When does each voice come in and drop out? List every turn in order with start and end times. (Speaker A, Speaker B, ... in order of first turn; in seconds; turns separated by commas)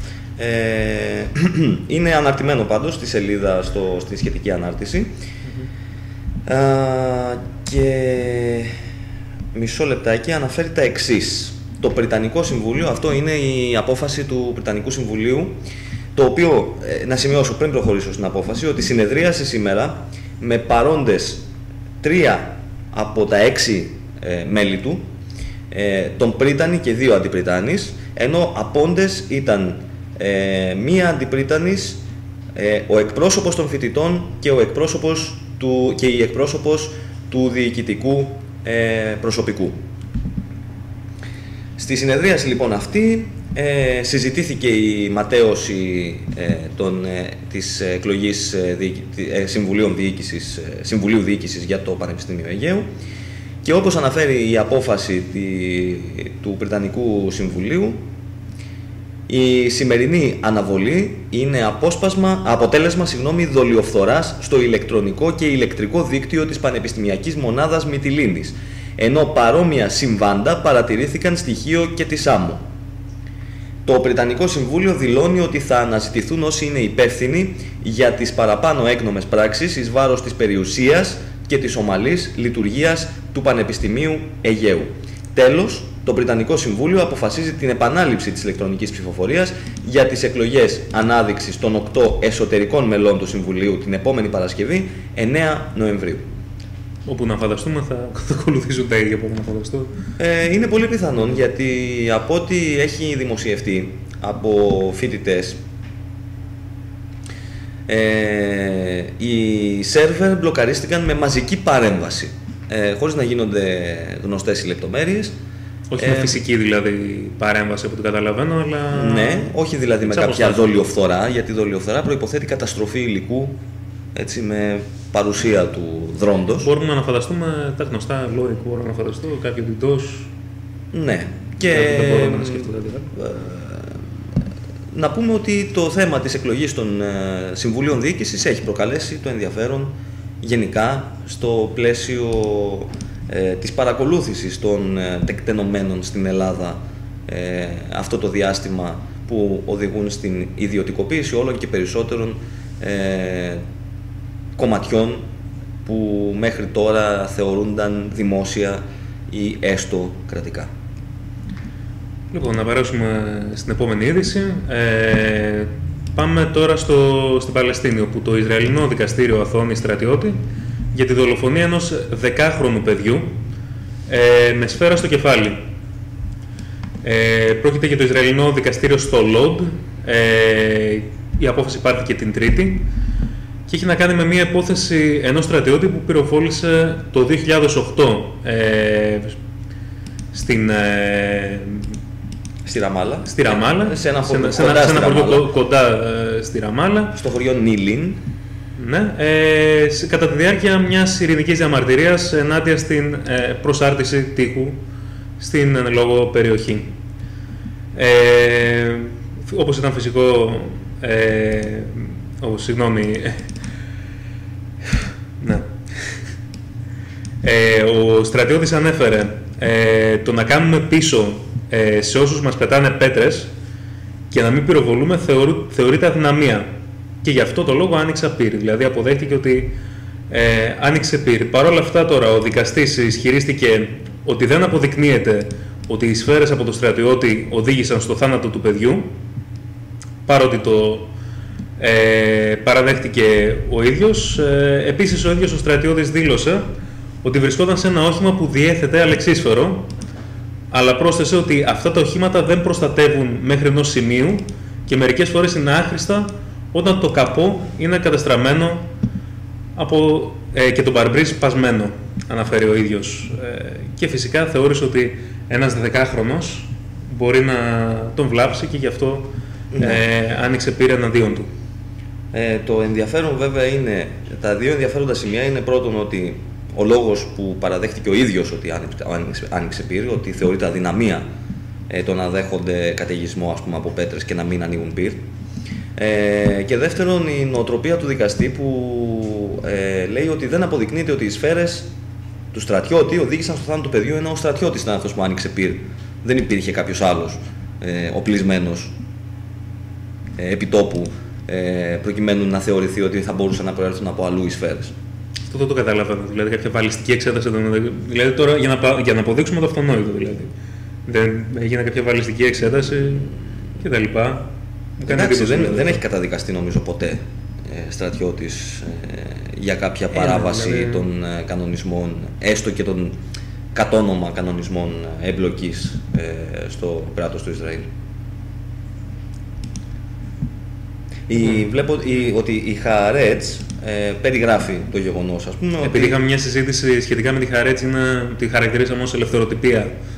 Speaker A: 0.4-5.1, Speaker A: 6.5-8.7, Speaker A: 9.5-15.6, Speaker A: 16.1-21.5, Speaker A: 22.0-25.0, Speaker A: 25.7-32.0, Speaker A: 32.5-39.8, Speaker A: 41.8-52.9, Speaker A: 53.6-58.0, Speaker A: 59.3-72.6, Speaker A: 73.8-96.2, Speaker B: 97.1-99.9, Speaker A: 100.2-105.6, Speaker A: 107.9-115.4, Speaker B: 115.9-119.5, Speaker A: 116.0-116.4, Speaker A: 118.9-123.6, Speaker B: 120.0-120.8, Speaker A: 124.2-126.7, Speaker B: 126.6-130.3, Speaker A: 130.9-134.0, Speaker B: 131.7-133.1, Speaker A: 134.9-153.6, Speaker A: 154.6-155.3, Speaker A: 155.8-160.7, Speaker B: 162.3-170.4, Speaker B: 170.9-173.3, Speaker B: 174.1-175.6, Speaker B: 177.0-182.9, Speaker B: 183.7-189.4, Speaker B: 190.3-191.9, Speaker A: 192.6-195.5, Speaker B: 193.3-197.2, Speaker A: 197.1-198.2, Speaker B: 198.8-204.8, Speaker B: 205.4-206.9, Speaker B: 207.9-213.4, Speaker B: 215.4-215.7, Speaker B: 217.4-223.5, Speaker B: 224.3-226.7, Speaker B: 227.2-229.8, Speaker B: 230.3-239.2, Speaker B: 240.3-241.1, Speaker B: 241.8-246.7, Speaker B: 247.2-249.9, Speaker B: 250.7-258.9, Speaker B: 259.8-271.5, Speaker A: 269.7-270.0, Speaker A: 272.3-281.3, Speaker A: 281.9-285.2, Speaker A: 286.0-291.9, Speaker A: 292.5-298.9, Speaker A: 300.4-304.9, Speaker B: 305.5-310.5, Speaker B: 311.1-316.0, Speaker A: 315.1-323.1, Speaker B: 320.1-321.1, Speaker A: 323.7-327.9, Speaker A: 331.3-336.2, Speaker B: 335.8-339.9